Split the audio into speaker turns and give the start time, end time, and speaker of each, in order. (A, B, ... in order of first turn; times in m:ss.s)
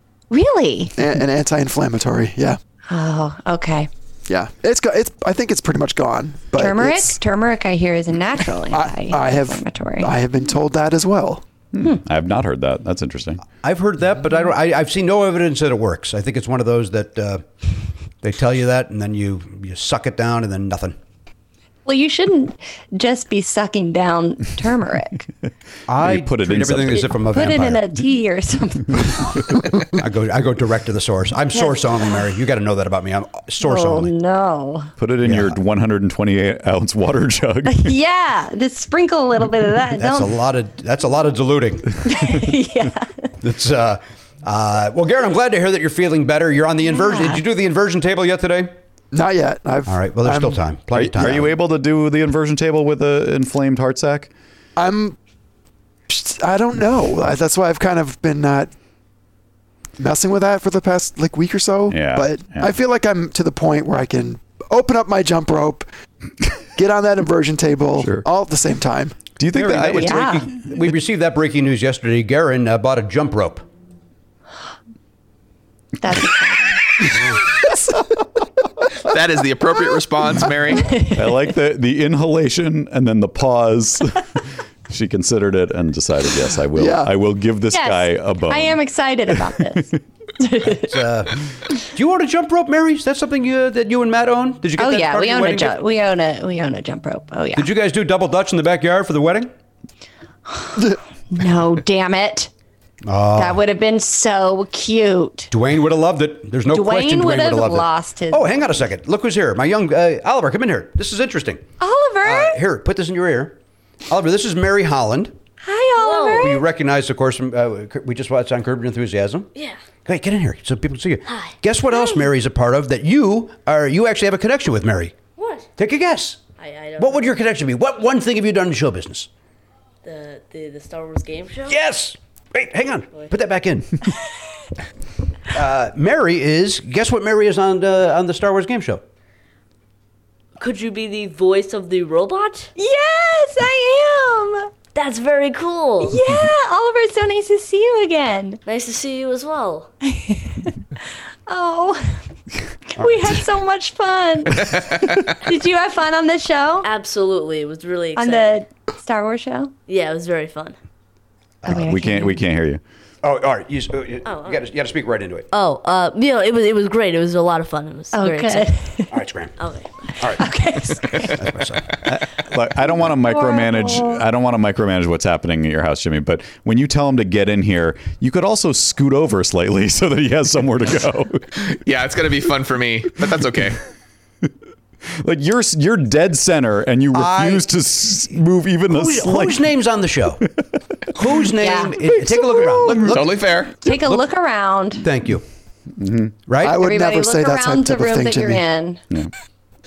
0:00.3-0:00.9 A
0:01.0-0:02.6 B
0:02.9-0:03.9 A
0:04.3-0:07.2 B
0:06.6-0:10.1 A
0:08.7-0:11.4 B
0:11.7-0:13.4 C
0:13.6-0:17.5 D
0:18.2-0:21.0 D
0:21.8-0:25.2 A
0:25.9-0:27.8 D
0:26.0-0:27.2 C
0:27.2-0:29.4 A
0:29.9-0:34.1 D
0:31.5-0:32.2 A
0:33.6-0:34.9 A
0:35.0-0:37.9 C
0:35.2-0:35.6 D
0:37.7-0:40.3 A
0:40.0-0:42.1 D
0:42.0-0:43.3 A
0:43.4-0:48.7 D
0:46.9-0:47.4 A
0:49.1-0:50.6 B
0:49.9-0:51.5 D
0:50.9-0:54.3 C
0:54.8-0:55.2 B
0:56.1-0:58.7 B
1:00.0-1:05.9 B
1:01.9-1:02.7 C
1:06.8-1:09.2 B
1:08.0-1:08.3 C
1:09.4-1:10.3 C
1:09.5-1:13.6 D
1:10.0-1:10.5 A
1:16.0-1:17.2 A
1:19.0-1:21.0 E
1:21.1-1:28.8 C
1:26.8-1:27.1 B
1:27.7-1:31.0 A
1:29.4-1:29.8 C
1:30.6-1:35.8 D
1:34.8-1:37.7 A
1:37.6-1:39.5 D
1:40.5-1:42.5 A
1:43.0-1:43.6 D
1:43.4-1:45.5 A
1:45.5-1:51.6 D
1:46.7-1:48.5 A
1:51.8-1:52.6 A
1:52.2-1:53.6 D
1:54.1-1:55.3 D
1:55.6-1:56.6 A
1:56.0-1:56.6 F
1:56.4-1:59.5 D
2:00.0-2:05.2 D
2:01.3-2:01.5 F
2:01.9-2:02.3 A
2:05.4-2:05.7 F
2:05.8-2:06.4 D
2:06.6-2:07.4 F
2:07.0-2:09.3 D
2:10.0-2:11.8 F
2:11.7-2:14.0 D
2:15.5-2:19.0 D
2:20.6-2:22.7 F
2:22.8-2:24.7 A
2:24.9-2:26.3 F
2:26.0-2:28.6 A
2:28.7-2:29.9 F
2:30.0-2:30.7 A
2:31.5-2:32.2 A
2:32.9-2:36.9 A
2:36.8-2:38.6 F
2:38.2-2:39.7 A
2:39.9-2:40.8 F
2:41.6-2:42.4 A
2:41.7-2:42.8 C
2:43.2-2:45.5 D
2:44.2-2:44.6 F
2:45.5-2:48.7 F
2:48.1-2:49.1 A
2:49.1-2:49.5 D
2:49.6-2:49.9 F
2:50.2-2:50.4 D
2:50.4-2:51.5 A
2:51.1-2:51.9 D
2:52.1-3:01.6 C
2:53.1-2:54.2 A
3:01.6-3:03.8 E
3:05.1-3:09.6 C
3:07.1-3:07.6 D
3:08.9-3:10.4 D
3:11.1-3:13.3 D
3:11.6-3:13.0 A
3:12.9-3:13.2 C
3:13.1-3:13.8 E
3:13.8-3:15.0 A
3:15.0-3:15.4 D
3:16.0-3:16.4 C
3:16.5-3:16.8 D
3:16.6-3:18.6 B
3:16.7-3:19.0 A